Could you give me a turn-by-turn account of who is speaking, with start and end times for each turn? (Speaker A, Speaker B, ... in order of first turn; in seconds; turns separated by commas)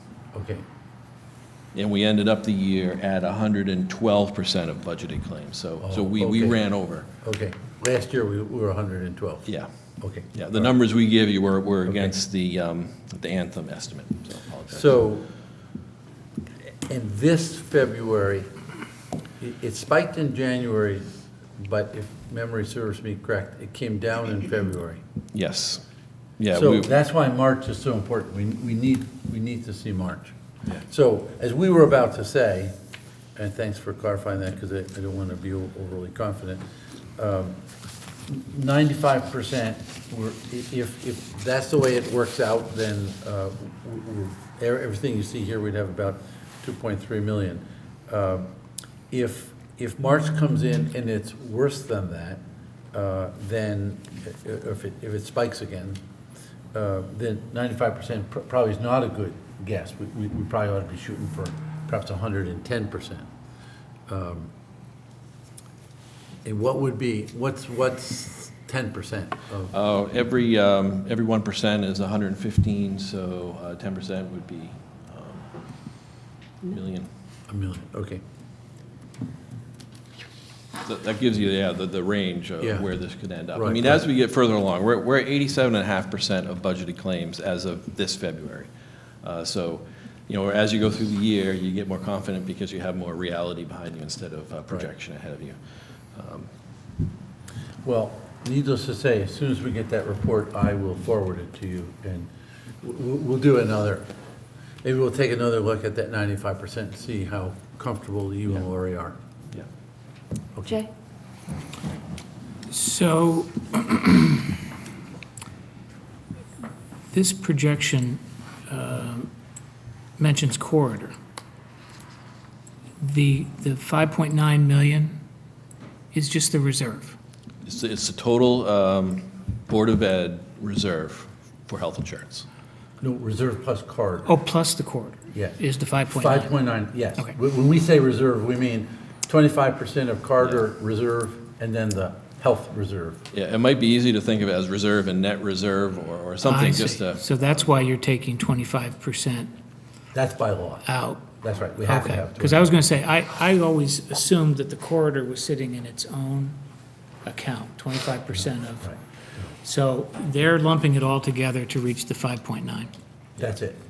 Speaker A: 0.3-0.6, Speaker B: 1.7-7.1, Speaker A: 5.8-6.6, Speaker A: 7.2-9.4, Speaker A: 10.0-10.7, Speaker B: 10.3-14.9, Speaker A: 11.9-12.1, Speaker A: 14.7-15.2, Speaker A: 16.9-18.5, Speaker A: 19.4-21.1, Speaker A: 21.6-25.0, Speaker B: 25.3-25.8, Speaker B: 26.4-26.9, Speaker A: 26.5-32.7, Speaker A: 33.4-36.6, Speaker A: 37.2-37.6, Speaker A: 38.2-48.5, Speaker A: 49.1-52.4, Speaker A: 52.9-56.0, Speaker A: 56.7-63.3, Speaker A: 64.1-64.5, Speaker A: 66.4-69.7, Speaker B: 69.7-75.5, Speaker B: 76.7-77.1, Speaker A: 77.5-78.2, Speaker B: 80.8-88.7, Speaker A: 82.6-82.9, Speaker A: 83.5-84.0, Speaker B: 89.2-95.6, Speaker B: 96.1-96.5, Speaker A: 97.8-102.3, Speaker A: 102.8-104.0, Speaker A: 104.8-109.2, Speaker C: 112.7-114.5, Speaker C: 117.1-119.3, Speaker C: 120.2-121.1, Speaker C: 123.0-125.2, Speaker C: 126.1-127.2, Speaker B: 127.6-132.4, Speaker A: 133.0-134.3, Speaker C: 134.3-136.6, Speaker A: 135.3-135.6, Speaker A: 136.1-143.2, Speaker B: 143.3-147.7, Speaker C: 146.4-149.5, Speaker A: 150.1-150.8, Speaker C: 150.8-151.2, Speaker A: 151.4-152.7, Speaker C: 151.8-156.6, Speaker C: 157.2-158.9, Speaker A: 158.3-159.5, Speaker C: 159.6-162.9, Speaker A: 163.4-163.8